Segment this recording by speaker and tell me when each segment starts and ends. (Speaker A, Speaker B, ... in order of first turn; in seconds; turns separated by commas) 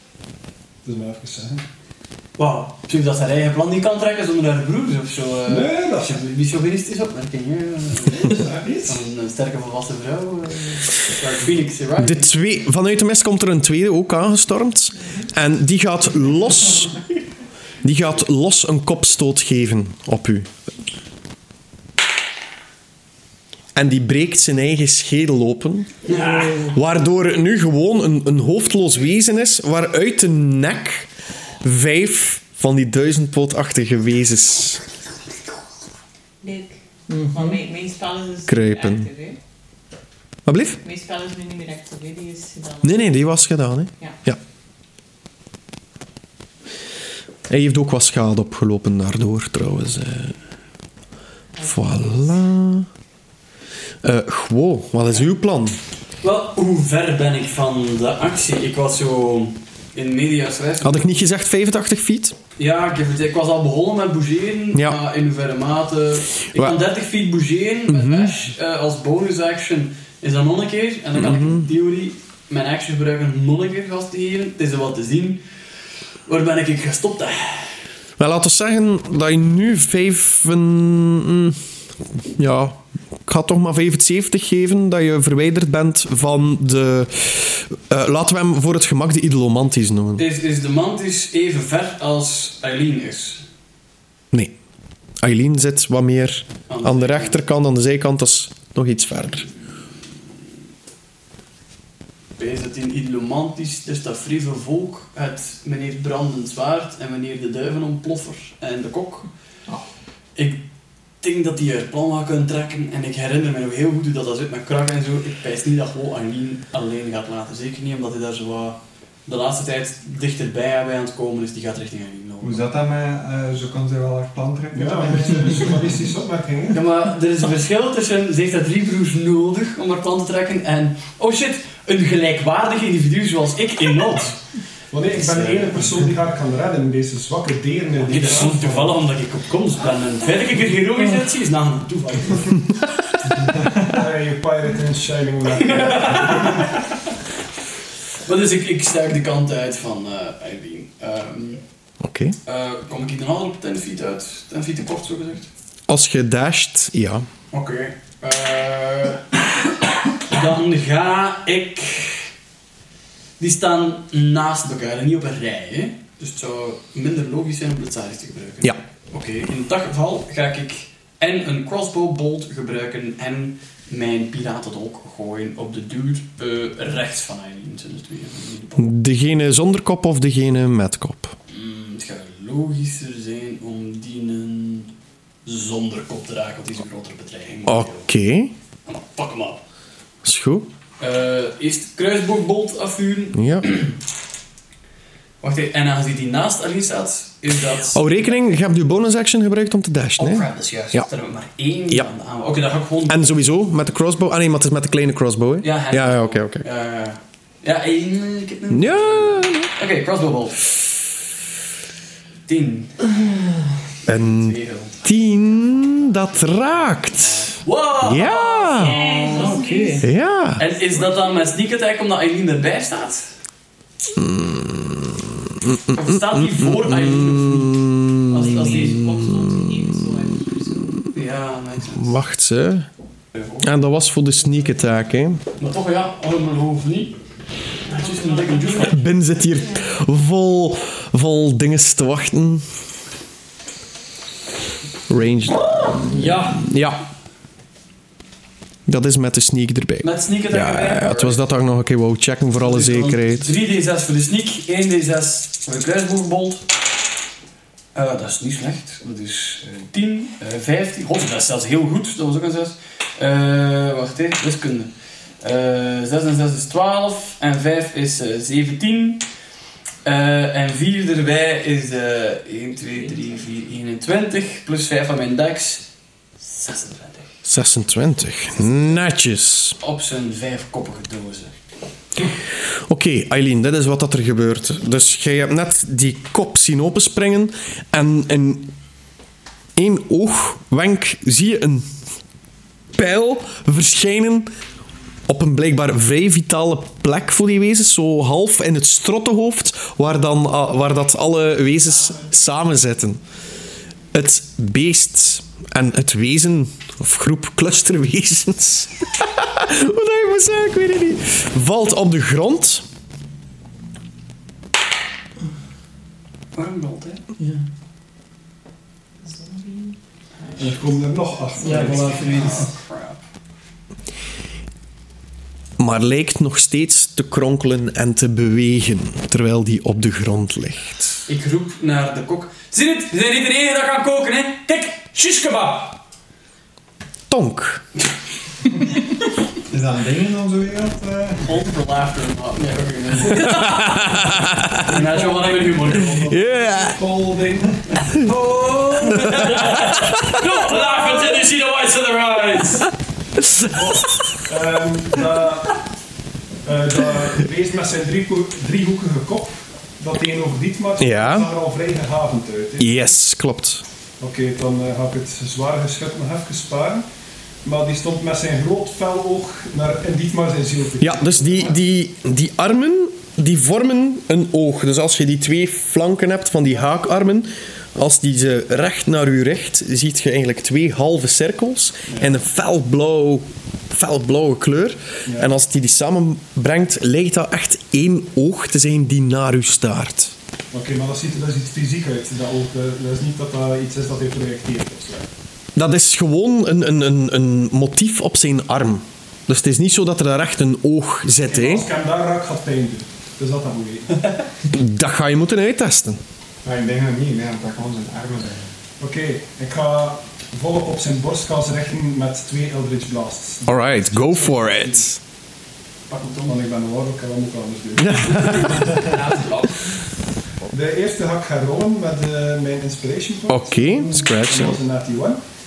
Speaker A: 0.8-1.6, Speaker B: 2.4-12.3, Speaker A: 5.5-6.2, Speaker A: 8.2-9.0, Speaker C: 12.0-17.0, Speaker C: 17.8-20.5, Speaker C: 23.7-26.1, Speaker B: 26.0-26.7, Speaker C: 26.7-31.1, Speaker C: 31.6-34.8, Speaker D: 36.4-39.4, Speaker E: 37.1-37.6, Speaker C: 38.5-39.1, Speaker C: 40.5-40.8, Speaker D: 40.8-43.0, Speaker C: 42.8-44.4, Speaker C: 47.5-50.4, Speaker D: 51.5-52.4, Speaker C: 51.6-52.9, Speaker C: 54.0-55.8, Speaker B: 56.2-61.1, Speaker C: 60.8-62.4, Speaker B: 62.6-75.4, Speaker C: 64.7-65.0, Speaker C: 66.5-66.8, Speaker C: 67.9-68.4, Speaker C: 71.1-71.7, Speaker B: 76.2-77.7, Speaker C: 78.2-81.6, Speaker C: 82.3-90.2, Speaker B: 90.2-93.4, Speaker C: 95.2-99.5, Speaker B: 96.7-97.4, Speaker B: 102.4-109.3, Speaker B: 110.3-110.6, Speaker B: 111.2-122.7, Speaker F: 122.4-125.9, Speaker A: 124.7-126.8, Speaker B: 126.7-134.4, Speaker A: 134.9-139.0, Speaker B: 135.1-136.1, Speaker B: 138.0-142.6, Speaker A: 142.1-142.4, Speaker A: 143.7-146.7, Speaker B: 145.6-146.8, Speaker B: 148.2-151.6, Speaker C: 152.0-152.3, Speaker B: 152.4-155.5, Speaker C: 155.9-157.3, Speaker B: 157.5-159.3, Speaker B: 160.3-162.3, Speaker B: 163.4-178.9, Speaker C: 178.8-181.3, Speaker B: 181.5-184.9, Speaker B: 185.4-188.1, Speaker C: 187.7-188.5, Speaker B: 188.8-189.6, Speaker C: 190.2-190.7, Speaker B: 191.0-193.9, Speaker C: 193.3-193.7, Speaker B: 195.4-198.6, Speaker C: 197.9-201.1, Speaker B: 200.2-203.4, Speaker C: 203.1-206.6, Speaker B: 205.6-210.7, Speaker C: 208.7-209.7, Speaker B: 212.4-213.2, Speaker C: 214.1-219.0, Speaker B: 214.1-219.6, Speaker D: 218.7-220.1, Speaker E: 219.1-220.0, Speaker C: 220.0-220.6, Speaker B: 220.6-223.3, Speaker D: 220.9-221.4, Speaker C: 224.1-229.8, Speaker B: 225.9-229.0, Speaker D: 228.3-231.0, Speaker B: 231.1-232.2, Speaker C: 231.9-232.9, Speaker B: 233.3-233.7, Speaker C: 233.6-235.4, Speaker B: 235.6-237.2, Speaker B: 237.8-239.0, Speaker D: 237.9-240.0, Speaker C: 238.8-242.6, Speaker C: 245.1-247.0, Speaker E: 246.1-246.6, Speaker C: 248.8-253.5, Speaker B: 250.0-251.4, Speaker B: 252.6-256.6, Speaker B: 257.9-264.9, Speaker B: 265.4-269.2, Speaker B: 270.0-275.9, Speaker B: 276.4-277.3, Speaker C: 277.4-279.8, Speaker B: 278.6-279.0, Speaker B: 279.8-281.6, Speaker C: 282.9-288.7, Speaker C: 289.8-291.9, Speaker C: 292.9-294.5, Speaker C: 295.3-303.2, Speaker C: 304.1-312.8, Speaker B: 316.5-317.2, Speaker E: 317.4-317.6, Speaker D: 319.2-322.3, Speaker A: 320.6-322.7, Speaker E: 321.6-322.7, Speaker B: 321.7-323.2, Speaker C: 325.8-331.2, Speaker B: 331.3-336.0, Speaker C: 337.3-337.8, Speaker F: 339.7-341.6, Speaker B: 341.4-344.2, Speaker C: 343.4-344.9, Speaker B: 344.7-346.6, Speaker A: 344.9-348.3, Speaker C: 346.2-347.0, Speaker B: 348.1-352.9, Speaker C: 349.3-350.4, Speaker C: 353.4-353.7, Speaker A: 353.5-355.8, Speaker A: 356.6-363.1, Speaker C: 361.0-361.5, Speaker C: 362.8-363.8, Speaker A: 364.2-367.0, Speaker A: 367.6-371.8, Speaker C: 371.0-390.3, Speaker A: 385.2-385.5, Speaker A: 390.7-395.3, Speaker C: 395.8-401.9, Speaker A: 401.4-404.4, Speaker C: 404.7-406.2, Speaker F: 406.6-408.6, Speaker A: 409.0-415.1, Speaker C: 413.6-415.2, Speaker B: 416.1-416.6, Speaker A: 416.4-419.2, Speaker C: 418.0-419.1, Speaker B: 418.8-419.9, Speaker A: 420.7-425.4, Speaker C: 423.5-424.8